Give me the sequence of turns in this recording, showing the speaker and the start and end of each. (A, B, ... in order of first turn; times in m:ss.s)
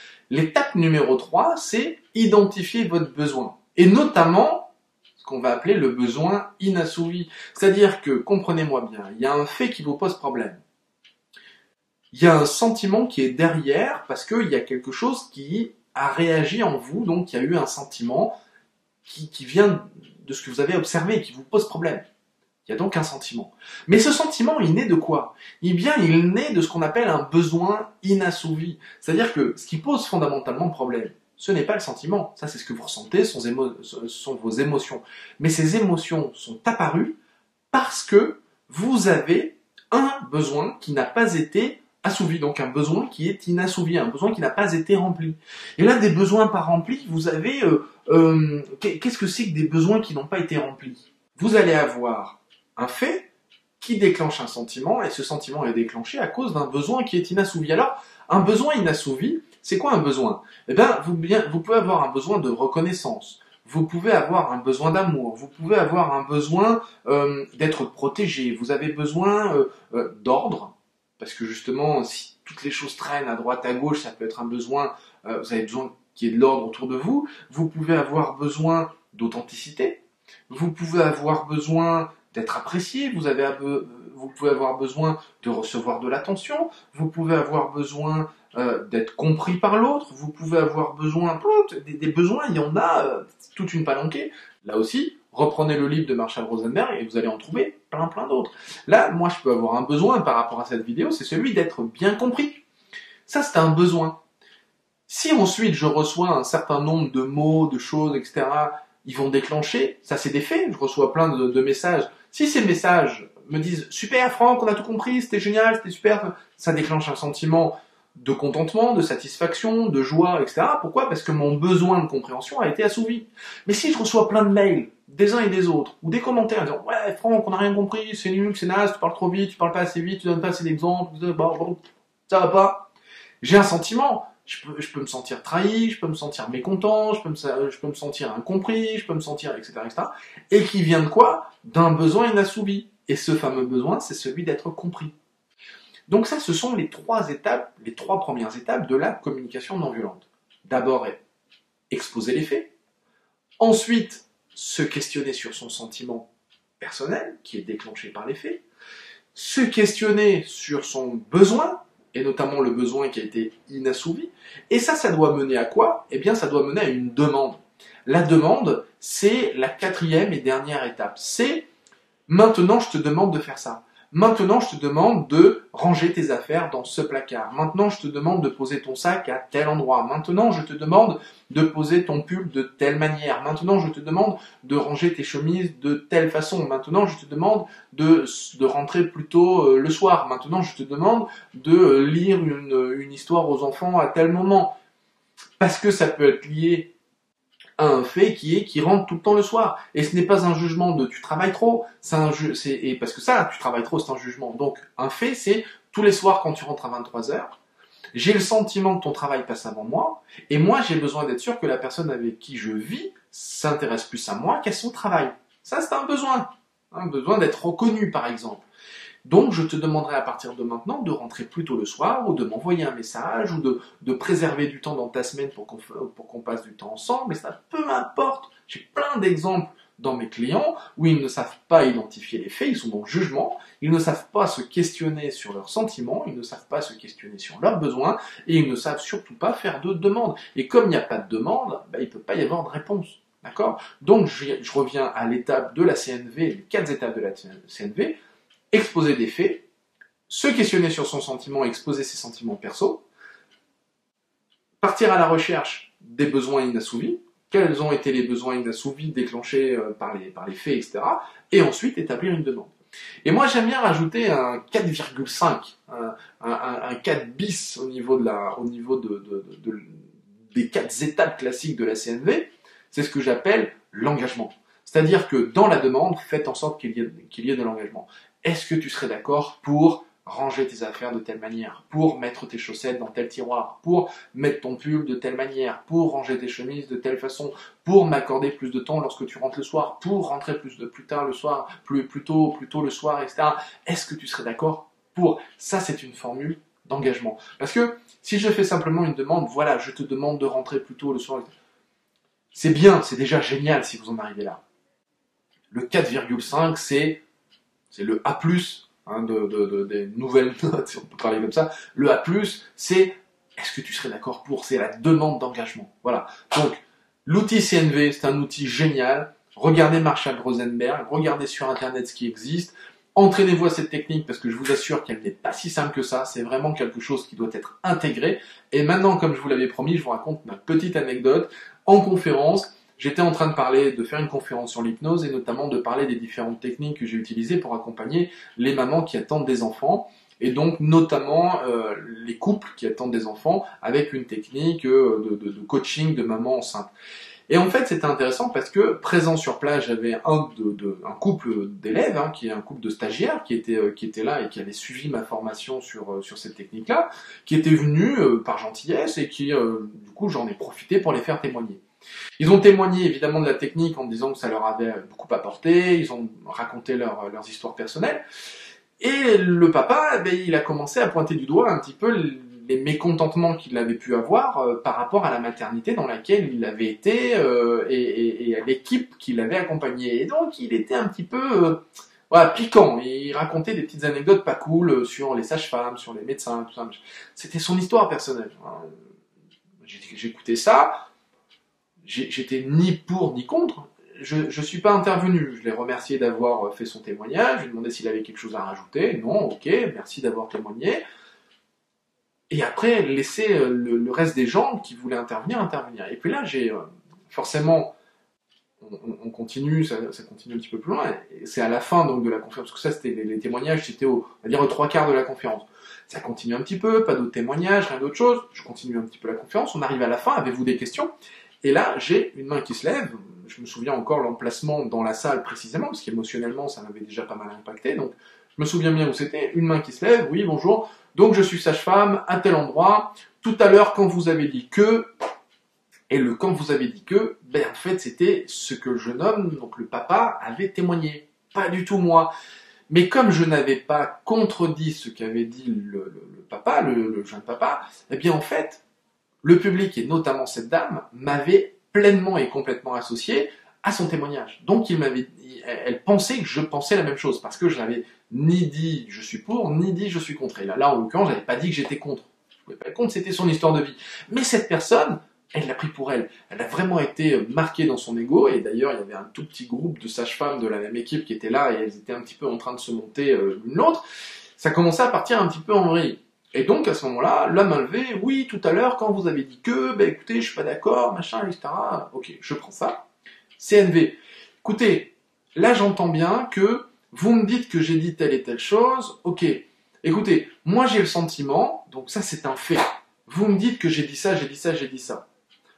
0:00.3-0:10.6 A
0:12.1-0:18.4 A
0:19.0-0:22.0 A
0:22.6-0:37.2 A
0:37.7-0:53.3 A
0:53.8-1:42.6 A
1:43.2-1:44.2 A
1:45.1-2:12.9 A
2:13.4-2:25.1 A
2:26.1-2:31.2 A
2:31.9-2:32.7 A
2:33.6-2:36.3 A
2:36.8-2:38.6 A
2:39.3-2:51.7 A
2:52.3-3:14.8 A
3:15.6-3:16.9 A
3:17.8-3:27.6 A
3:28.1-3:38.6 A
3:39.2-4:08.2 A
4:08.7-4:09.6 A
4:10.3-4:13.0 A
4:14.8-4:22.7 A
4:23.2-5:01.5 A
5:02.5-5:04.6 A
5:05.7-5:07.2 A
5:07.9-5:46.9 A
5:47.5-6:01.8 A
6:02.4-6:08.2 A
6:09.0-6:28.9 A
6:29.8-6:31.0 A
6:32.0-6:41.0 A
6:42.5-6:47.9 A
6:48.8-7:01.1 A
7:01.6-7:15.1 A
7:16.1-7:22.3 A
7:22.9-7:28.8 A
7:29.4-7:54.0 A
7:54.6-8:03.0 A
8:03.6-8:15.3 A